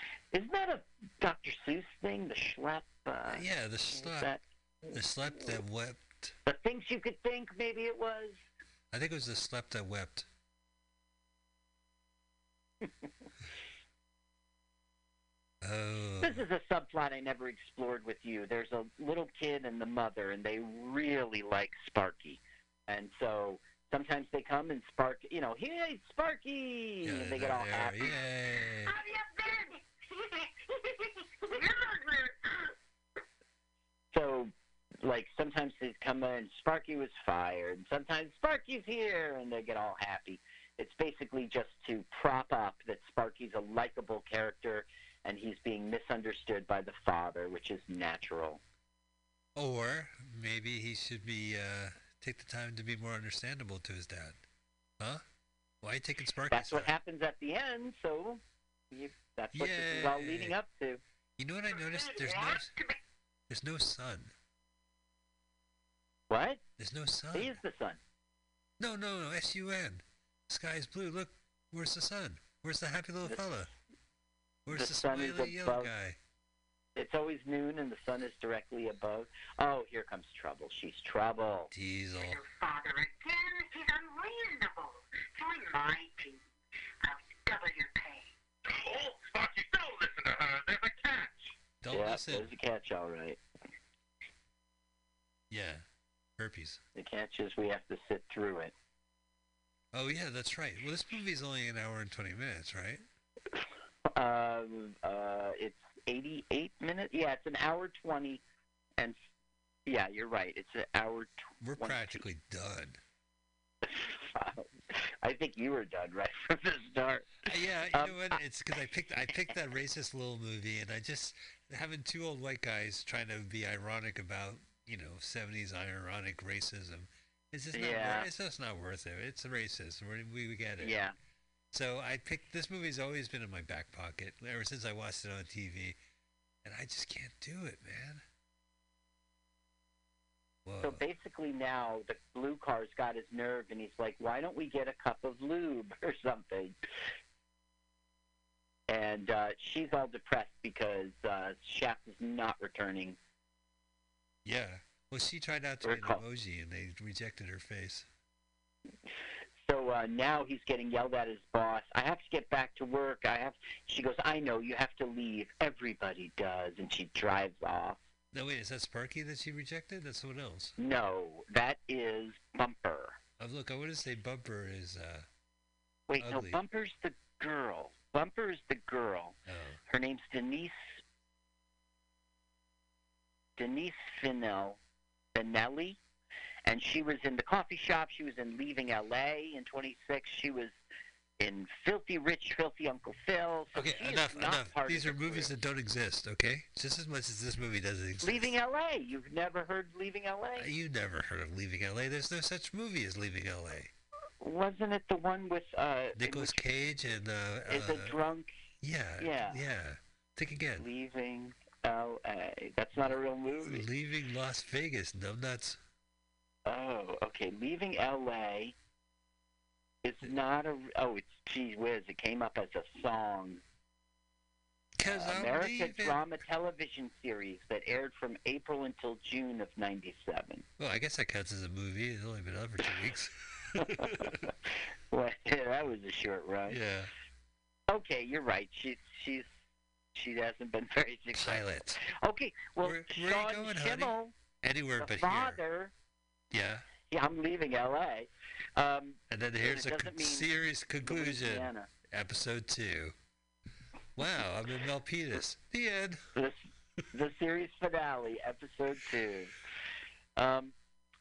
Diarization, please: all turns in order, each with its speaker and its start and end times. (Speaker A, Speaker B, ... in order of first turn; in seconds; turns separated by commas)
Speaker A: 0.3-3.4, Speaker B: 3.3-4.3, Speaker A: 4.0-5.0, Speaker B: 4.9-6.3, Speaker A: 6.5-8.4, Speaker B: 8.9-10.3, Speaker B: 15.6-16.4, Speaker A: 16.2-28.2, Speaker B: 27.0-28.9, Speaker C: 28.9-32.7, Speaker A: 34.1-48.6, Speaker B: 49.5-54.4, Speaker B: 55.8-56.9, Speaker A: 56.5-61.0, Speaker B: 59.5-60.6, Speaker B: 61.4-62.7, Speaker C: 61.8-63.0, Speaker B: 63.5-64.3, Speaker A: 66.3-66.6, Speaker B: 66.8-67.6, Speaker A: 67.3-68.0, Speaker B: 68.8-73.7, Speaker B: 74.7-76.2, Speaker A: 74.7-75.9, Speaker A: 77.0-81.7, Speaker B: 81.7-82.4, Speaker C: 82.2-86.4, Speaker C: 87.0-88.3, Speaker D: 88.7-91.5, Speaker B: 91.8-92.5, Speaker A: 91.9-93.4, Speaker B: 95.5-95.8, Speaker B: 96.4-96.8, Speaker A: 97.0-98.7, Speaker B: 99.9-103.0, Speaker A: 104.2-108.4, Speaker A: 109.9-112.2, Speaker B: 111.6-113.0, Speaker A: 113.8-117.3, Speaker B: 117.5-131.0, Speaker A: 117.9-118.2, Speaker A: 127.7-128.3, Speaker A: 130.8-131.1, Speaker B: 131.7-136.0, Speaker B: 136.6-138.2, Speaker B: 140.7-141.1, Speaker A: 140.8-146.8, Speaker A: 148.9-153.2, Speaker B: 154.4-158.1, Speaker A: 155.8-156.2, Speaker A: 159.6-168.0, Speaker B: 168.3-170.8, Speaker A: 170.8-173.2, Speaker B: 173.4-175.3, Speaker A: 176.1-179.3, Speaker B: 176.2-176.6, Speaker B: 179.5-179.8, Speaker A: 179.9-180.9, Speaker A: 183.6-184.8, Speaker A: 185.3-186.0, Speaker A: 186.7-190.7, Speaker A: 191.4-195.5, Speaker B: 193.7-198.5, Speaker A: 198.2-200.7, Speaker B: 200.6-203.9, Speaker A: 204.4-206.6, Speaker B: 206.2-208.2, Speaker A: 207.7-208.5, Speaker B: 208.8-210.9, Speaker A: 209.2-209.6, Speaker A: 210.8-213.8, Speaker B: 213.6-215.8, Speaker A: 216.7-218.7, Speaker A: 220.0-223.6, Speaker B: 225.0-226.2, Speaker A: 225.1-230.7, Speaker B: 230.8-234.5, Speaker A: 235.1-236.8, Speaker B: 236.7-237.1, Speaker A: 237.9-239.5, Speaker A: 240.1-244.3, Speaker B: 241.3-242.0, Speaker B: 242.8-245.6, Speaker A: 245.0-245.9, Speaker B: 246.5-246.9, Speaker A: 247.0-250.5, Speaker B: 249.3-253.2, Speaker A: 251.1-251.9, Speaker B: 254.2-256.2, Speaker A: 257.1-259.5, Speaker A: 260.4-260.7